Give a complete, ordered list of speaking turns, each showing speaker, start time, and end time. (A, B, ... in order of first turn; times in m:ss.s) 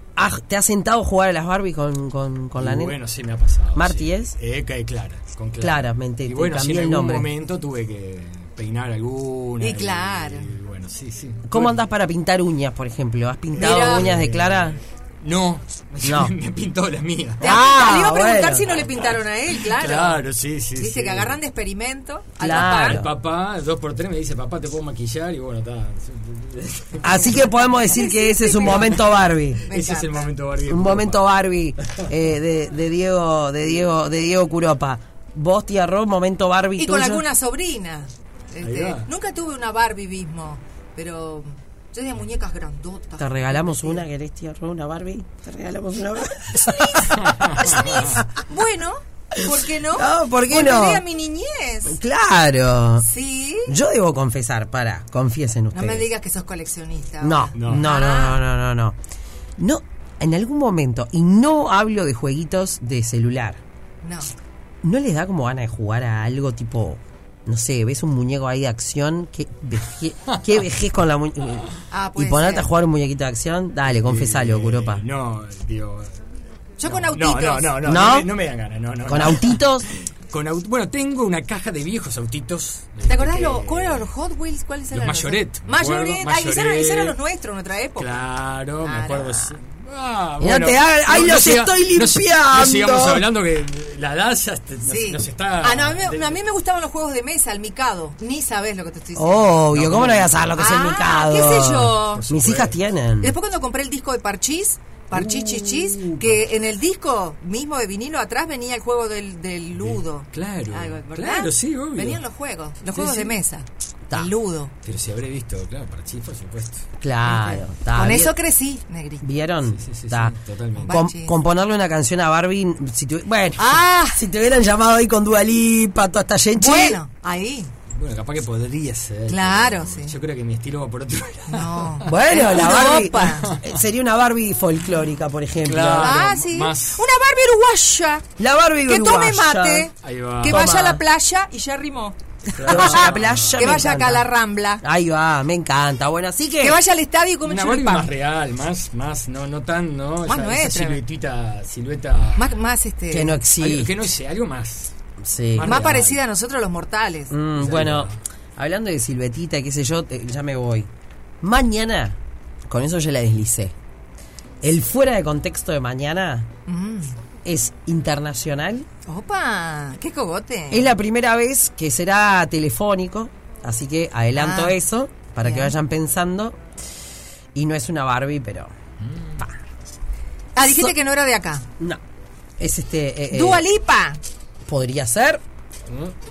0:00.2-0:03.0 A
0:02.6-0:11.8 B
0:03.7-0:04.4 A
0:05.6-0:07.3 A
0:09.6-0:10.5 C
0:11.5-0:14.8 A
0:13.6-0:17.5 B
0:13.6-0:14.1 C
0:16.0-0:16.3 A
0:17.4-0:18.7 A
0:17.4-0:20.2 C
0:19.6-0:21.4 B
0:20.8-0:23.1 C
0:22.4-0:23.1 A
0:22.5-0:27.7 B
0:27.0-0:29.6 A
0:27.8-0:29.1 C
0:28.6-0:29.0 B
0:29.6-0:30.3 C
0:29.7-0:31.2 B
0:30.7-0:37.2 A
0:36.8-0:44.0 C
0:38.6-0:39.1 B
0:43.2-0:48.3 A
0:46.6-0:52.0 C
0:47.2-0:48.1 B
0:49.3-0:51.0 A
0:51.9-0:53.1 A
0:53.0-0:53.7 C
0:53.7-0:56.1 A
0:55.7-0:58.4 C
0:57.2-0:59.0 A
0:57.6-0:57.9 B
0:59.6-1:03.6 A
1:04.0-1:04.3 C
1:04.8-1:15.0 A
1:10.3-1:10.6 B
1:11.9-1:12.7 C
1:13.9-1:16.2 B
1:16.8-1:18.0 C
1:16.8-1:24.1 B
1:17.8-1:18.3 A
1:19.1-1:19.9 A
1:23.1-1:28.2 C
1:24.9-1:27.2 B
1:28.0-1:36.4 B
1:28.8-1:29.6 C
1:30.4-1:33.3 A
1:34.9-1:39.4 C
1:39.2-1:43.3 A
1:39.7-1:40.6 B
1:40.6-1:42.3 C
1:41.9-1:42.8 B
1:43.2-1:54.7 C
1:45.1-1:46.4 B
1:49.8-1:52.2 B
1:52.9-1:53.4 B
1:54.8-1:56.8 B
1:57.0-1:58.3 A
1:57.2-1:59.2 C
1:59.2-2:00.4 A
1:59.7-2:01.0 B
2:00.8-2:01.4 C
2:00.9-2:07.0 A
2:03.6-2:04.2 C
2:06.6-2:07.7 C
2:07.9-2:13.7 B
2:09.3-2:10.1 C
2:11.5-2:13.6 C
2:12.0-2:16.2 A
2:15.6-2:17.0 B
2:16.0-2:18.3 C
2:18.4-2:19.9 A
2:18.9-2:24.8 C
2:20.0-2:20.7 B
2:20.4-2:21.0 A
2:22.6-2:23.9 B
2:22.6-2:24.3 A
2:24.8-2:26.8 A
2:26.6-2:28.1 C
2:27.4-2:32.5 B
2:30.3-2:31.0 C
2:32.4-2:33.4 C
2:33.1-2:33.9 A
2:33.6-2:35.0 B
2:35.2-2:35.8 A
2:35.5-2:36.2 B
2:35.6-2:37.4 C
2:37.3-2:40.9 A
2:37.6-2:38.2 B
2:41.4-2:42.2 A
2:42.7-2:43.8 A
2:44.6-2:46.5 A
2:46.7-2:47.2 C
2:47.4-2:48.9 A
2:49.1-2:50.9 C
2:50.7-2:56.6 A
2:54.4-2:54.8 C
2:55.4-2:55.7 C
2:57.6-2:58.7 A
3:00.6-3:01.6 C
3:00.6-3:00.9 A
3:02.6-3:03.6 A
3:03.3-3:04.2 C
3:04.7-3:05.4 A